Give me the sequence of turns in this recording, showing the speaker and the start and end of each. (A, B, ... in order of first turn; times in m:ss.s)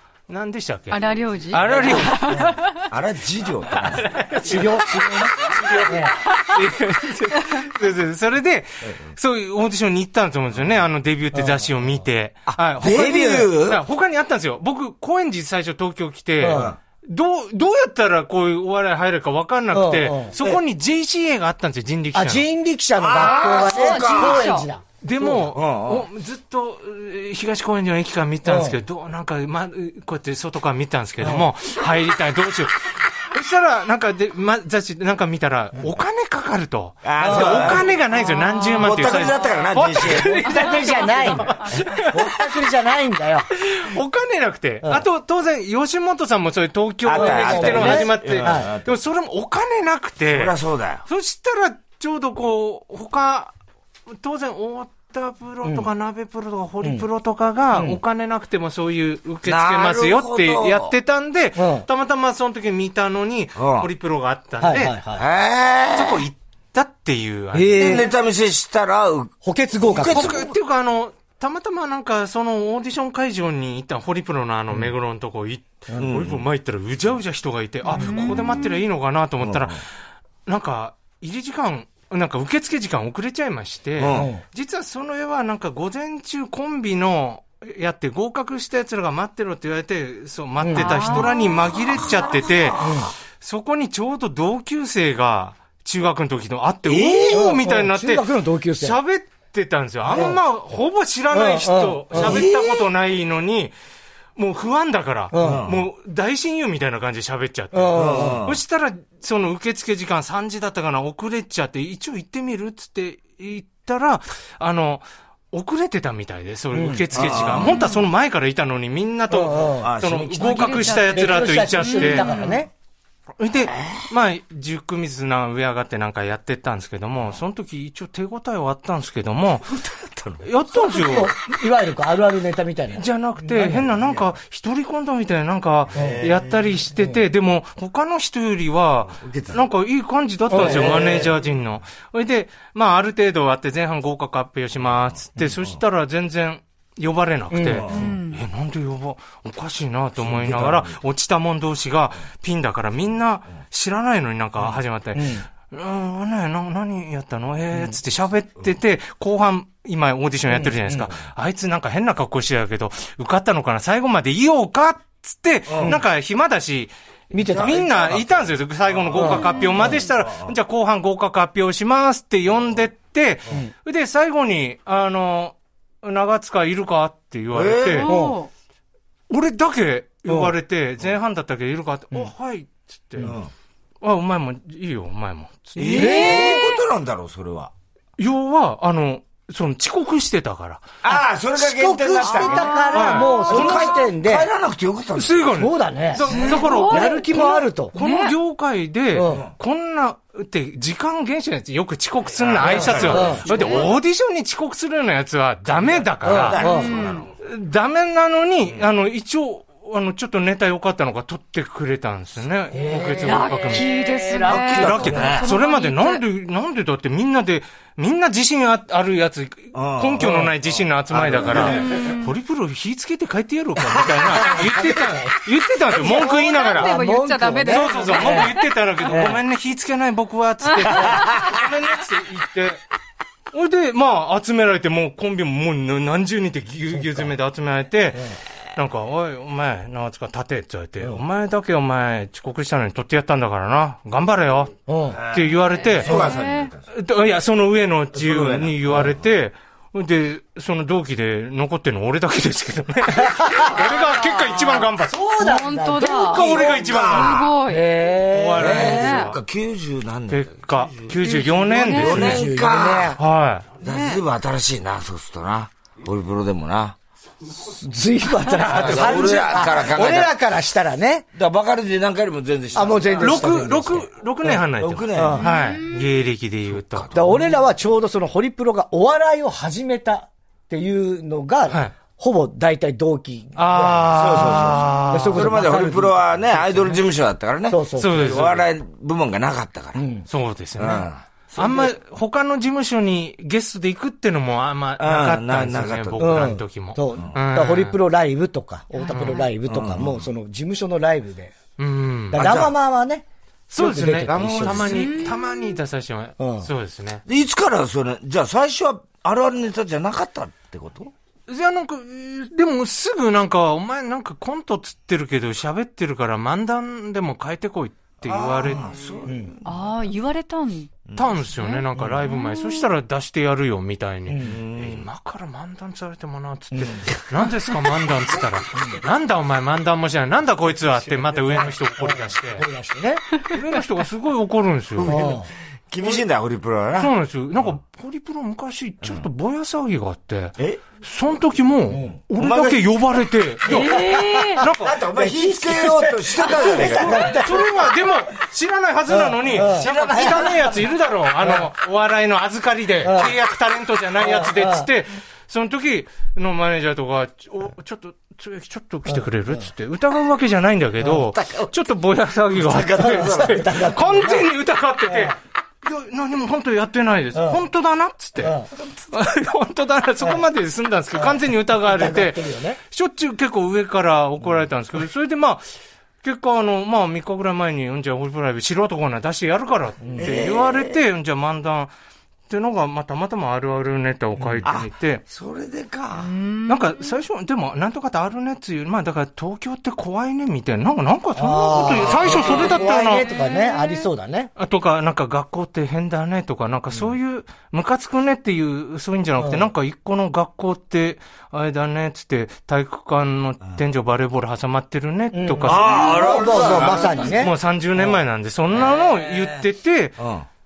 0:00.3-0:02.4 A
0:00.9-0:02.9 B
0:01.6-0:04.3 C
0:03.8-0:22.4 A
0:04.4-0:06.2 D
0:11.3-0:11.6 D
0:12.5-0:13.8 C
0:12.8-0:13.5 D
0:16.4-0:16.8 D
0:16.5-0:16.8 C
0:19.7-0:20.6 D
0:22.1-0:25.4 D
0:23.0-0:24.5 C
0:23.2-0:24.7 B
0:25.0-0:42.4 A
0:25.4-0:26.1 C
0:28.4-0:28.8 D
0:31.2-0:31.5 D
0:37.0-0:37.9 C
0:37.2-0:37.9 D
0:38.2-0:38.8 B
0:38.8-0:40.6 C
0:40.4-0:43.5 D
0:40.9-0:41.7 B
0:43.6-0:53.5 A
0:47.0-0:49.0 C
0:47.1-0:48.7 D
0:50.3-0:51.0 C
0:54.1-1:05.0 A
0:55.6-0:55.9 D
0:57.7-0:58.0 D
0:59.4-1:00.9 C
1:01.6-1:01.9 D
1:03.6-1:03.9 C
1:04.6-1:05.3 D
1:05.2-1:06.2 C
1:05.9-1:08.0 A
1:07.5-1:08.1 D
1:07.8-1:10.5 C
1:09.4-1:10.4 D
1:10.1-1:19.8 A
1:16.0-1:16.4 C
1:17.9-1:18.8 B
1:19.4-1:19.8 C
1:20.5-1:32.9 A
1:24.0-1:24.3 C
1:24.1-1:24.4 D
1:30.6-1:31.3 D
1:30.7-1:31.6 B
1:31.7-1:33.1 C
1:32.8-1:33.1 D
1:33.4-1:43.7 A
1:36.9-1:37.5 C
1:37.3-1:39.0 D
1:40.1-1:40.4 D
1:41.3-1:42.5 D
1:42.1-1:42.9 C
1:44.4-2:02.5 A
1:45.3-1:45.7 D
1:45.4-1:45.9 C
1:47.7-1:48.5 D
1:48.0-1:48.6 C
1:56.7-1:57.4 D
1:57.1-1:57.9 C
1:57.6-1:58.0 B
1:59.3-2:00.0 D
1:59.8-2:01.0 C
2:00.4-2:02.6 B
2:00.8-2:02.7 D
2:03.4-2:09.8 A
2:03.6-2:04.0 C
2:09.7-2:10.4 C
2:10.4-2:11.3 A
2:10.7-2:13.9 D
2:12.9-2:46.9 A
2:14.0-2:14.3 C
2:15.9-2:16.8 C
2:15.9-2:16.2 D
2:19.1-2:19.6 C
2:20.5-2:21.3 D
2:20.5-2:21.4 C
2:25.5-2:25.8 C
2:27.5-2:28.1 D
2:27.8-2:28.2 C
2:27.9-2:28.4 B
2:30.2-2:31.0 C
2:35.2-2:35.5 D
2:40.5-2:41.1 D
2:45.7-2:46.0 C
2:47.3-2:47.8 D
2:47.4-2:50.5 C
2:47.4-2:58.1 A
2:49.2-2:50.0 D
2:49.6-2:49.9 B
2:57.5-2:58.1 C
2:57.9-2:58.5 B
2:58.1-2:58.4 D
2:59.3-3:03.3 A
3:00.3-3:00.5 D
3:03.2-3:03.5 C
3:04.0-3:06.6 A
3:05.8-3:07.7 C
3:05.8-3:06.8 B
3:05.9-3:06.6 D
3:08.2-3:10.9 A
3:11.0-3:15.6 C
3:11.1-3:14.5 D
3:12.2-3:13.7 B
3:12.9-3:14.0 A
3:15.1-3:26.7 A
3:15.6-3:18.0 D
3:16.3-3:17.2 B
3:18.0-3:18.4 B
3:19.1-3:19.4 D
3:22.4-3:23.9 C
3:22.6-3:23.6 D
3:23.5-3:23.8 B
3:25.7-3:27.3 C
3:26.2-3:27.0 D
3:26.6-3:27.3 B
3:27.4-3:33.9 A
3:32.7-3:35.4 D
3:33.2-3:36.2 B
3:34.5-3:35.5 C
3:34.7-3:46.9 A
3:39.7-3:42.0 C
3:40.2-3:40.5 D
3:41.6-3:42.4 B
3:44.3-3:49.4 D
3:46.1-3:48.6 B
3:47.7-3:52.8 A
3:50.9-3:51.6 C
3:53.5-4:04.8 A
3:56.9-3:57.3 D
4:04.9-4:05.2 D
4:05.1-4:06.8 C
4:05.3-4:06.2 A
4:06.0-4:06.7 B
4:06.1-4:06.4 D
4:06.9-4:15.2 A
4:08.2-4:09.2 C
4:13.2-4:13.7 D
4:13.7-4:17.9 B
4:15.1-4:17.0 D
4:16.1-4:17.4 A
4:16.1-4:17.5 C
4:17.6-4:19.0 D
4:18.3-4:19.4 A
4:18.5-4:21.2 C
4:18.7-4:19.3 B
4:20.3-4:22.4 A
4:21.2-4:22.4 B
4:21.8-4:23.2 C
4:22.0-4:23.2 D
4:23.2-4:23.7 A
4:23.8-4:27.0 C
4:23.8-4:24.2 B
4:27.6-4:31.2 D
4:28.6-4:30.3 C
4:28.8-4:29.3 A
4:31.4-4:33.7 C
4:32.7-4:34.5 D
4:33.2-4:37.1 A
4:34.6-4:35.4 C
4:35.1-4:35.5 D
4:35.4-4:36.0 B
4:36.7-4:37.4 C
4:37.1-4:47.0 D
4:41.7-4:41.9 A
4:43.6-4:45.7 A
4:44.1-4:50.0 C
4:47.7-4:48.4 D
4:48.0-4:48.7 A
4:50.0-4:50.3 D
4:50.3-4:58.0 A
4:50.8-4:51.2 C
4:51.5-4:51.9 D
4:55.0-4:56.4 C
4:56.2-5:01.5 D
4:59.0-4:59.5 B
4:59.1-4:59.5 A
4:59.6-5:00.3 C
5:01.8-5:02.4 A
5:02.3-5:05.2 D
5:02.4-5:02.7 C
5:03.7-5:07.2 A
5:04.3-5:05.1 C
5:04.9-5:05.8 B
5:06.4-5:06.7 D
5:07.3-5:11.1 C
5:11.5-5:18.8 A
5:18.2-5:19.5 C
5:19.2-5:19.5 D
5:19.6-5:20.9 B
5:21.1-5:21.4 C
5:21.2-5:32.7 A
5:21.6-5:22.9 B
5:24.3-5:24.6 D
5:24.4-5:25.1 C
5:26.7-5:27.1 D
5:28.7-5:29.0 D
5:31.5-5:33.4 D
5:33.4-5:35.1 A
5:35.0-5:37.7 C
5:35.0-5:35.5 D
5:37.0-5:45.0 A
5:40.6-5:40.8 C
5:41.9-5:42.2 D
5:42.3-5:42.9 C
5:43.7-5:44.6 B
5:43.7-5:47.9 D
5:44.7-5:47.4 C
5:46.8-6:15.6 A
5:49.1-5:50.5 D
5:49.6-5:50.8 C
5:51.4-5:51.7 D
5:53.0-5:53.3 D
5:54.2-5:54.9 D
5:59.1-5:59.7 D
6:01.0-6:01.7 C
6:02.5-6:03.7 C
6:03.0-6:04.5 D
6:05.0-6:05.4 D
6:07.3-6:07.6 D
6:08.4-6:08.7 D
6:11.1-6:12.8 D
6:16.2-6:21.9 A
6:20.0-6:20.4 D
6:20.2-6:21.0 C
6:22.5-6:25.2 A
6:24.4-6:24.6 D
6:24.6-6:26.3 C
6:26.2-6:27.1 B
6:26.7-6:33.2 A
6:31.4-6:34.5 D
6:32.0-6:32.7 C
6:33.2-6:34.1 B
6:34.6-6:50.2 A
6:39.4-6:39.7 D
6:45.3-6:47.5 D
6:45.6-6:48.2 C
6:45.9-6:47.2 B
6:48.7-6:49.6 C
6:50.2-6:50.5 C